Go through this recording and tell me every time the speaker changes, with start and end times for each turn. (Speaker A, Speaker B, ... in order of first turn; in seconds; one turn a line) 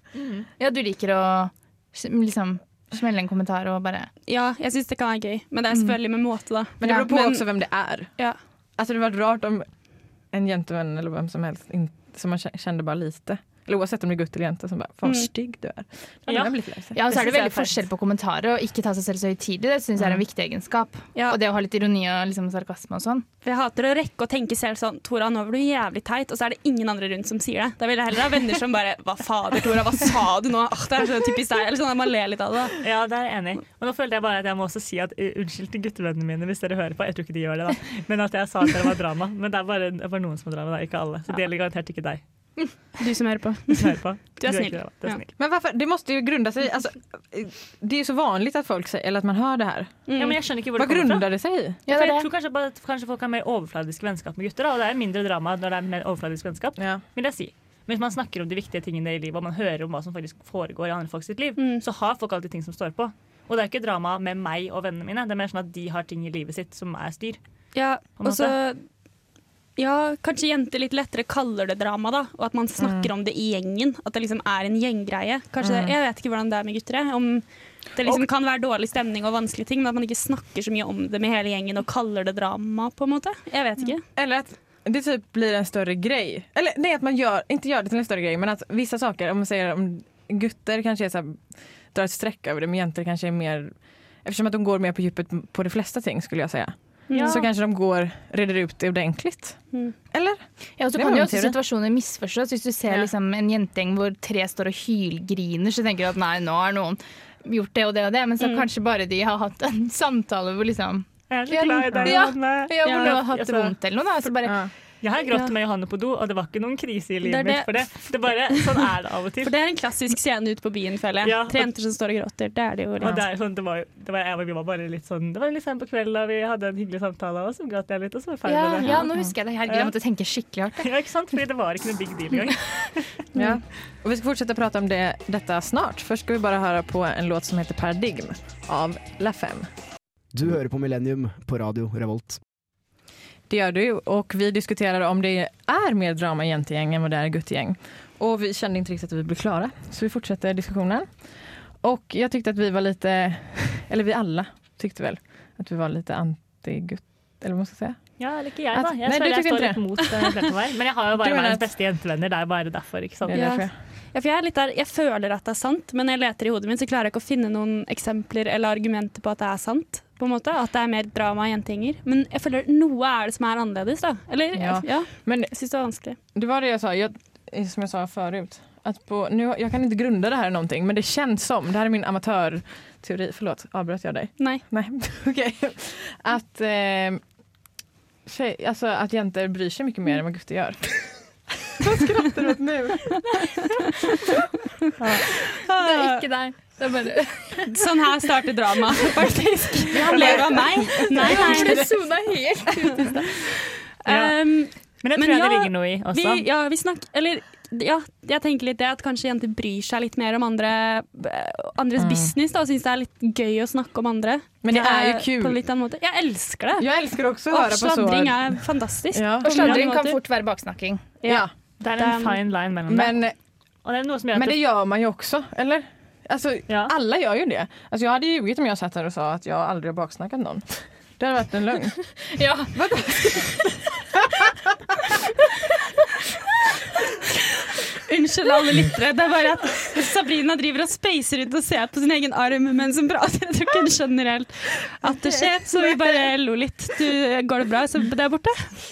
Speaker A: 0.6-4.1
Speaker B: 4.3-7.4
Speaker C: 6.8-8.1
Speaker A: 6.8-7.1
Speaker C: 8.8-9.7
Speaker C: 10.3-17.0
Speaker B: 15.0-15.3
Speaker D: 16.3-17.8
Speaker A: 16.9-23.2
Speaker B: 23.4-32.8
Speaker D: 32.8-42.8
Speaker B: 43.0-45.2
Speaker D: 43.7-45.3
Speaker C: 45.4-50.0
Speaker B: 50.1-50.4
Speaker D: 50.2-51.3
Speaker C: 50.8-51.8
Speaker A: 51.9-52.3
Speaker D: 51.9-67.4
Speaker C: 56.8-57.0
Speaker B: 61.6-61.8
Speaker B: 67.8-68.8
Speaker D: 68.2-68.5
Speaker B: 69.8-84.0
Speaker C: 72.8-73.1
Speaker C: 75.6-75.9
Speaker C: 84.2-100.4
Speaker B: 97.1-97.4
Speaker D: 97.1-97.4
Speaker A: 100.8-114.7
Speaker C: 100.9-101.6
Speaker B: 108.4-108.7
Speaker D: 111.3-113.7
Speaker B: 112.8-113.2
Speaker C: 114.5-114.7
Speaker D: 115.0-119.5
Speaker B: 117.2-118.8
Speaker B: 119.4-123.2
Speaker D: 121.2-121.7
Speaker D: 123.0-129.1
Speaker A: 128.5-130.9
Speaker B: 128.8-129.1
Speaker D: 130.8-133.2
Speaker C: 133.3-139.7
Speaker E: 140.3-142.4
Speaker C: 143.5-151.1
Speaker C: 151.8-160.1
Speaker D: 158.2-163.5
Speaker C: 161.2-161.7
Speaker C: 163.3-163.7
Speaker B: 163.3-176.2
Speaker C: 174.6-175.5
Speaker C: 176.3-187.2
Speaker C: 188.3-191.2
Speaker C: 191.8-193.5
Speaker D: 195.0-195.3
Speaker B: 195.7-196.3
Speaker A: 195.8-197.8
Speaker B: 197.7-201.9
Speaker C: 199.9-201.9
Speaker A: 199.9-200.3
Speaker D: 200.1-200.4
Speaker A: 201.1-203.3
Speaker D: 201.3-201.8
Speaker B: 204.0-216.9
Speaker D: 204.1-206.4
Speaker C: 212.0-212.3
Speaker C: 214.6-215.6
Speaker C: 216.8-219.6
Speaker B: 217.5-220.2
Speaker A: 219.4-221.1
Speaker D: 219.6-219.8
Speaker B: 221.2-222.4
Speaker C: 221.2-221.5
Speaker D: 221.8-223.2
Speaker C: 222.9-223.3
Speaker D: 223.8-224.6
Speaker C: 224.3-232.1
Speaker A: 232.3-233.6
Speaker C: 232.7-233.7
Speaker B: 238.0-248.8
Speaker C: 245.0-246.2